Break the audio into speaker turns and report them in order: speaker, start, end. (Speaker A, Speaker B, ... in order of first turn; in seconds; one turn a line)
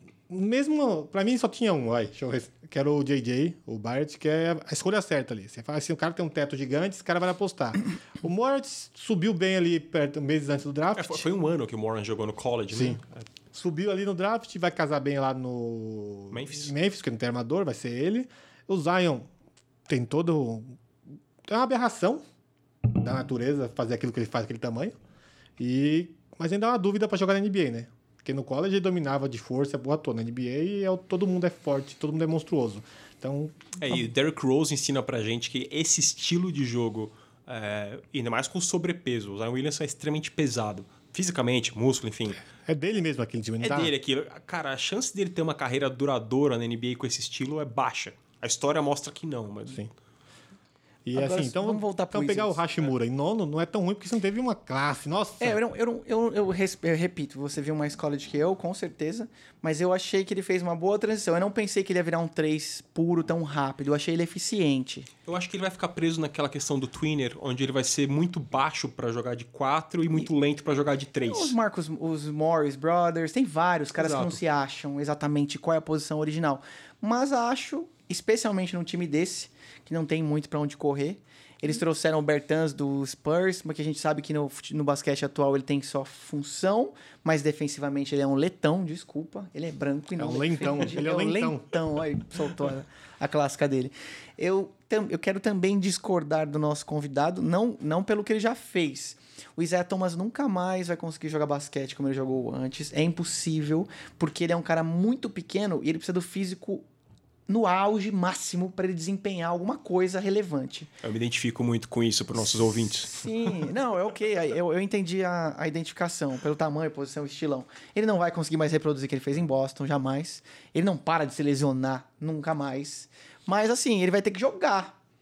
Speaker A: 0.3-11.2
Speaker B: 10.9-13.2
Speaker A: 12.7-13.0
Speaker A: 13.5-19.3
Speaker B: 16.3-16.7
Speaker A: 19.9-20.8
Speaker A: 21.4-22.2
Speaker A: 22.9-24.9
Speaker A: 25.6-33.8
Speaker B: 33.8-42.4
Speaker A: 42.5-43.9
Speaker B: 43.6-49.8
Speaker A: 51.0-55.6
Speaker C: 51.1-52.6
Speaker C: 55.4-65.1
Speaker B: 65.2-71.5
Speaker C: 71.2-106.8
Speaker B: 74.0-74.4
Speaker A: 90.2-91.8
Speaker C: 107.5-110.9
Speaker B: 111.0-113.3
Speaker C: 113.1-125.0